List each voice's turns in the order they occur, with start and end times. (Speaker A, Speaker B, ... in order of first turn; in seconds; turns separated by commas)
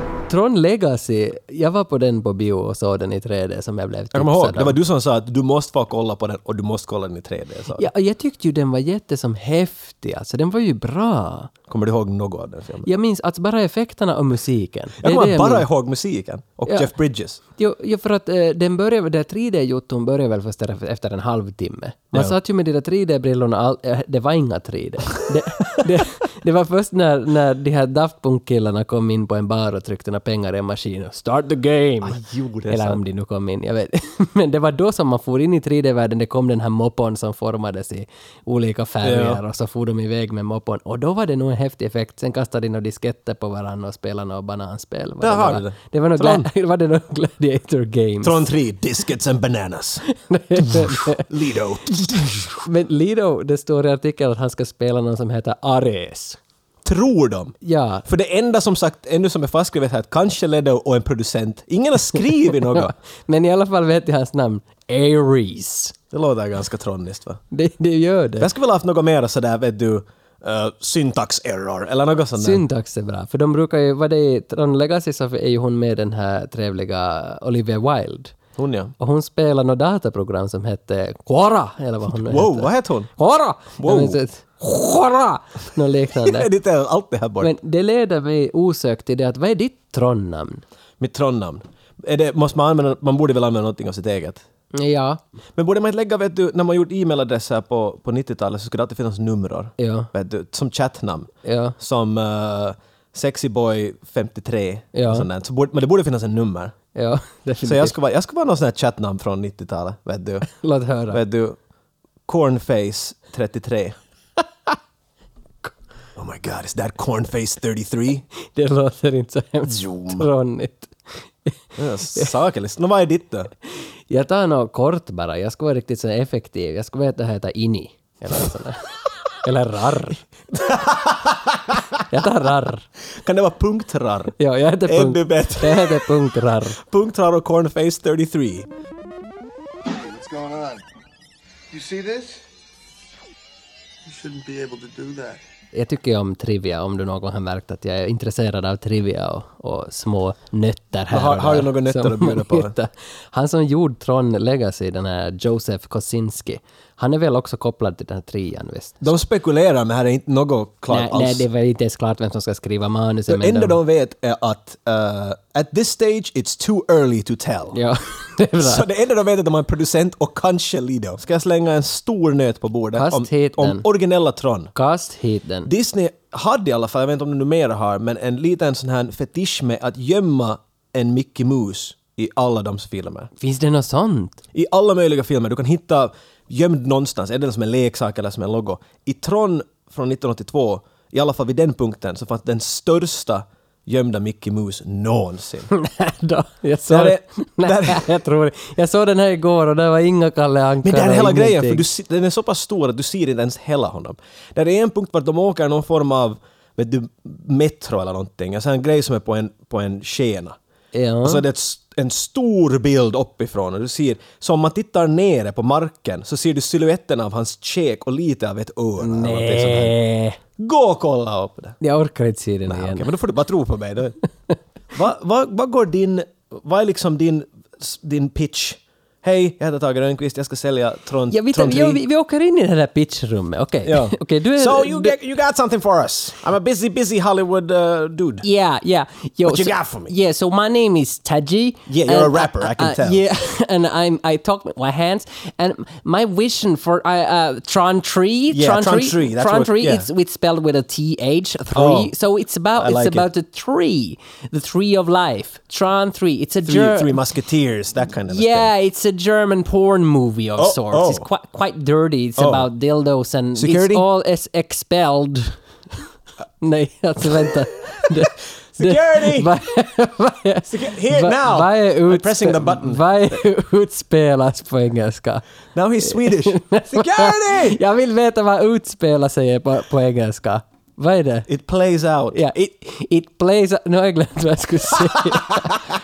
Speaker A: 0.3-4.8, Speaker B: 4.1-7.9, Speaker A: 7.7-11.5, Speaker B: 11.7-12.9, Speaker A: 12.8-15.7, Speaker B: 15.0-17.4, Speaker A: 17.6-48.5, Speaker B: 32.0-33.0, Speaker B: 39.0-39.4, Speaker B: 45.2-46.5, Speaker B: 48.2-50.0, Speaker A: 50.1-51.2, Speaker B: 50.5-52.3, Speaker A: 52.5-56.4, Speaker B: 56.8-57.5, Speaker A: 57.6-58.0, Speaker B: 58.0-62.9, Speaker A: 62.5-65.9, Speaker B: 66.1-67.4, Speaker A: 67.5-68.5, Speaker B: 68.4-72.6, Speaker A: 72.4-78.4, Speaker B: 78.6-78.9, Speaker A: 79.0-86.5, Speaker B: 82.1-83.1, Speaker B: 83.8-84.2, Speaker B: 86.1-87.5, Speaker A: 87.4-90.6, Speaker B: 91.0-94.4, Speaker A: 94.7-95.2, Speaker B: 95.6-106.7, Speaker A: 99.8-100.1, Speaker A: 101.4-101.7, Speaker A: 104.9-105.3, Speaker A: 106.9-108.0, Speaker B: 107.6-110.5, Speaker A: 110.4-111.2, Speaker B: 111.1-111.6, Speaker B: 112.3-113.9, Speaker B: 116.2-118.2, Speaker A: 118.5-120.9, Speaker B: 119.7-120.3, Speaker B: 121.8-123.5, Speaker A: 124.1-128.9, Speaker A: 129.4-130.2, Speaker B: 130.5-131.8, Speaker A: 132.1-132.9, Speaker B: 133.2-136.1, Speaker A: 134.4-136.8, Speaker B: 136.8-138.7, Speaker C: 140.0-140.8, Speaker C: 141.7-142.4, Speaker C: 144.1-145.4, Speaker A: 145.7-159.1, Speaker B: 151.1-152.7, Speaker B: 159.0-161.4, Speaker A: 160.9-163.8, Speaker B: 163.3-167.8, Speaker A: 167.7-168.8, Speaker B: 168.6-174.7, Speaker A: 172.9-173.8, Speaker A: 174.7-175.7, Speaker B: 175.7-183.3, Speaker A: 183.4-184.4, Speaker B: 184.5-195.7, Speaker A: 195.7-201.8, Speaker B: 196.9-198.1, Speaker B: 200.8-210.6, Speaker A: 210.9-211.4, Speaker B: 211.2-219.9, Speaker A: 219.0-220.4, Speaker B: 220.6-221.8, Speaker A: 221.8-223.1, Speaker B: 222.7-224.2, Speaker B: 224.9-232.0, Speaker A: 231.3-235.2, Speaker B: 233.8-238.4, Speaker A: 238.4-257.2, Speaker B: 239.4-240.1, Speaker B: 241.9-243.2, Speaker B: 248.5-250.1, Speaker B: 251.7-252.1, Speaker B: 252.8-253.3, Speaker B: 256.6-258.7, Speaker A: 258.1-265.6, Speaker B: 260.6-261.3, Speaker B: 262.4-262.7, Speaker B: 263.6-264.0, Speaker A: 266.6-275.4, Speaker B: 268.8-269.5, Speaker B: 270.7-273.0, Speaker B: 275.7-277.8, Speaker A: 276.1-281.5, Speaker B: 281.5-282.4, Speaker A: 282.3-285.8